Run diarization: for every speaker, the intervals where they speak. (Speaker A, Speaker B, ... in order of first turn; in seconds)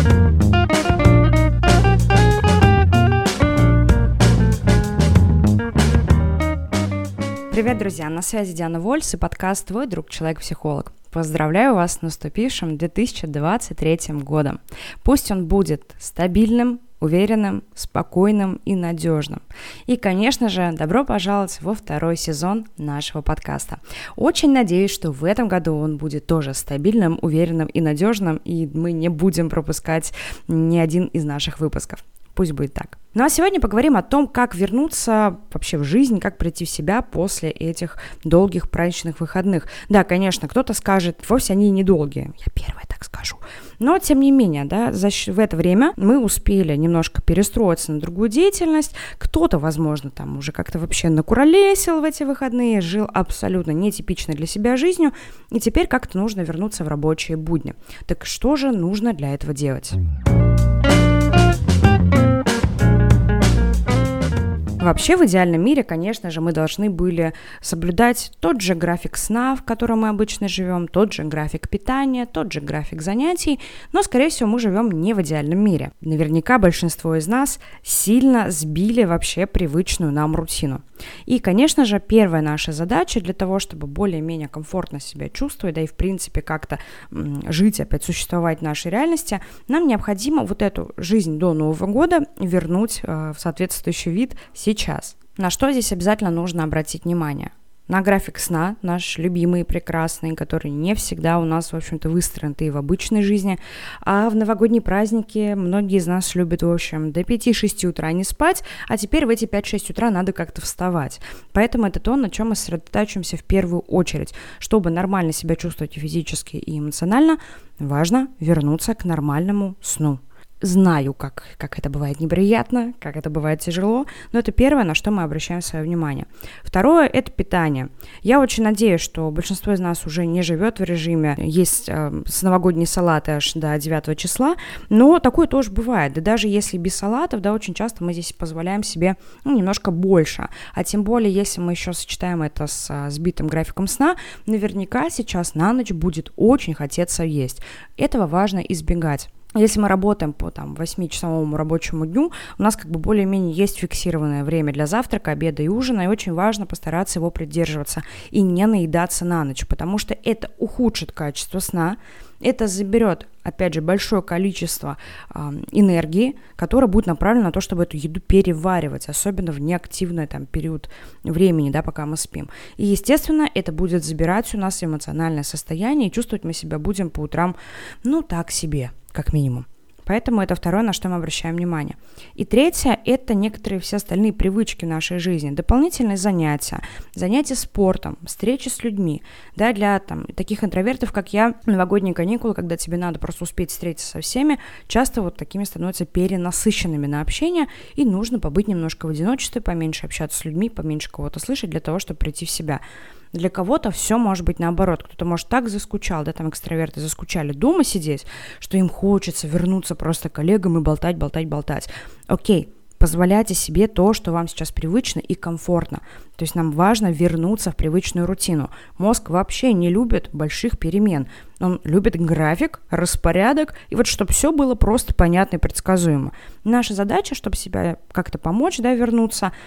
Speaker A: 7.5-60.0, 64.8-229.5